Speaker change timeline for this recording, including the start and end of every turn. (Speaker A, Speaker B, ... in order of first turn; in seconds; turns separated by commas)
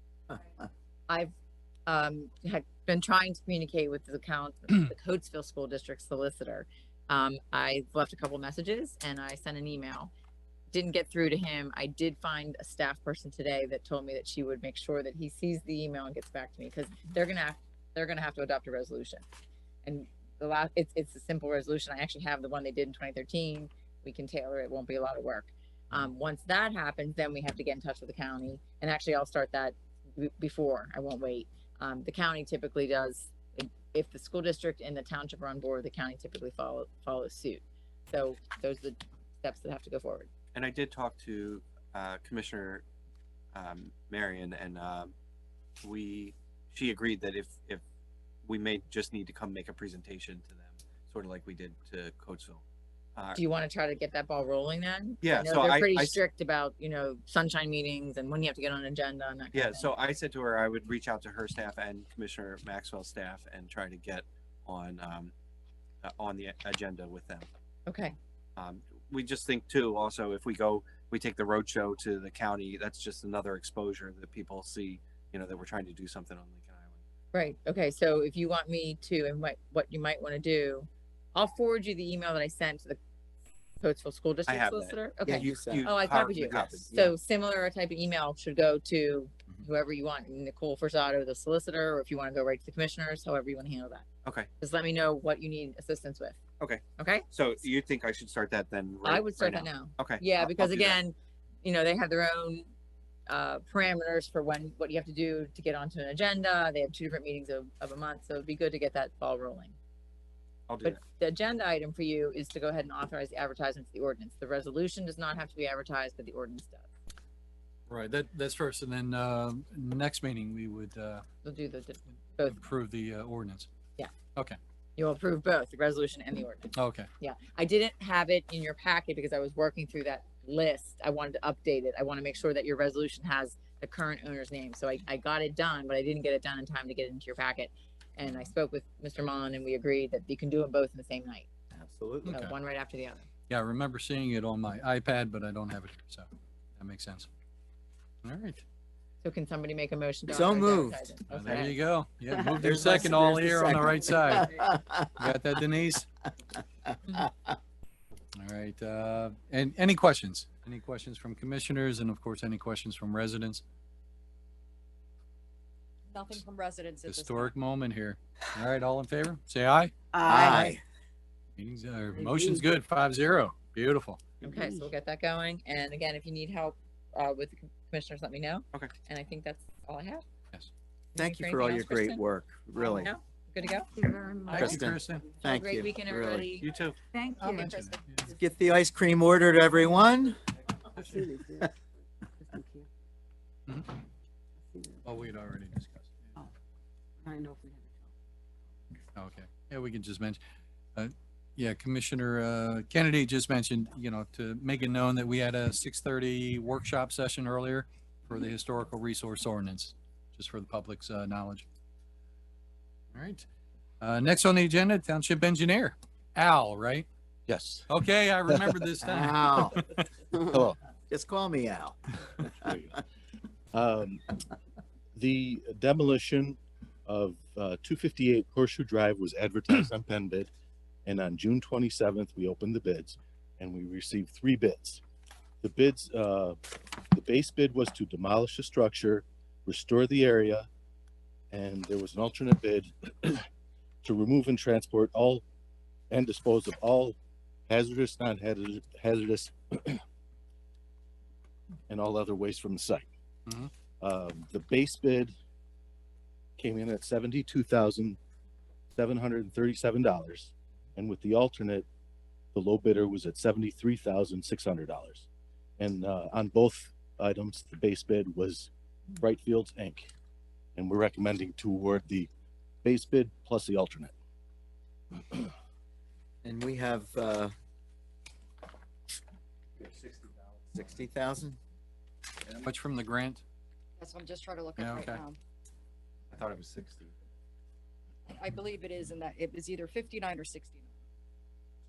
Speaker A: 1.1-1.3, Speaker A: 1.9-10.1, Speaker A: 10.7-19.2, Speaker A: 19.8-40.3, Speaker B: 40.5-42.8, Speaker B: 43.5-45.1, Speaker B: 45.8-47.8, Speaker B: 48.4-52.6, Speaker B: 53.2-53.4, Speaker A: 53.4-59.9, Speaker B: 55.2-56.2, Speaker B: 59.5-65.3, Speaker B: 66.0-67.5, Speaker A: 67.8-68.2, Speaker B: 68.5-77.0, Speaker A: 77.3-83.0, Speaker A: 83.8-94.0, Speaker B: 84.5-87.1, Speaker C: 85.2-87.0, Speaker A: 94.6-96.4, Speaker B: 96.6-101.0, Speaker A: 97.0-97.3, Speaker A: 99.0-102.7, Speaker A: 103.3-109.7, Speaker B: 110.7-111.0, Speaker A: 110.8-116.9, Speaker D: 117.9-121.2, Speaker A: 121.4-122.6, Speaker D: 122.5-123.7, Speaker A: 125.0-141.5, Speaker D: 126.7-127.1, Speaker C: 141.7-142.4, Speaker D: 142.2-142.5, Speaker A: 142.3-143.2, Speaker D: 143.5-146.3, Speaker D: 146.8-147.3, Speaker D: 148.2-148.6, Speaker A: 149.2-151.8, Speaker C: 150.3-151.1, Speaker D: 151.3-156.1, Speaker C: 152.5-155.0, Speaker D: 158.3-163.6, Speaker E: 166.1-167.5, Speaker D: 167.1-169.9, Speaker F: 170.2-170.7, Speaker C: 170.2-170.8, Speaker D: 171.6-174.2, Speaker A: 174.4-180.2, Speaker A: 181.2-182.2, Speaker C: 181.2-183.1, Speaker A: 182.8-184.1, Speaker F: 184.0-184.6, Speaker D: 184.5-185.4, Speaker C: 184.5-186.6, Speaker A: 185.4-187.7, Speaker D: 186.6-186.9, Speaker E: 187.4-188.0, Speaker D: 187.6-188.3, Speaker C: 188.2-190.4, Speaker F: 191.1-191.7, Speaker F: 192.5-192.9, Speaker F: 194.7-195.0, Speaker D: 195.0-196.3, Speaker F: 197.2-197.8, Speaker D: 199.2-200.4, Speaker D: 201.0-211.7, Speaker D: 213.1-213.5, Speaker D: 214.0-217.1, Speaker G: 217.5-217.9, Speaker D: 217.9-219.9, Speaker C: 219.0-219.8, Speaker G: 220.4-220.8, Speaker C: 221.1-222.8, Speaker G: 222.6-222.9, Speaker G: 223.7-224.3, Speaker G: 225.2-230.5, Speaker G: 231.1-235.0, Speaker G: 235.6-236.6, Speaker G: 237.1-240.7, Speaker G: 241.5-243.5, Speaker G: 244.0-245.4, Speaker G: 246.1-247.2, Speaker G: 247.7-250.0, Speaker G: 251.9-253.1, Speaker G: 254.0-255.3, Speaker G: 256.6-258.2, Speaker G: 258.9-261.9, Speaker G: 262.5-265.3, Speaker G: 265.8-270.1, Speaker G: 270.8-272.3, Speaker G: 272.8-274.1, Speaker C: 276.4-277.5, Speaker B: 279.8-280.3, Speaker C: 280.7-281.6, Speaker D: 282.5-283.4, Speaker E: 284.0-285.4, Speaker D: 284.8-285.2, Speaker B: 286.3-287.1, Speaker E: 288.3-290.9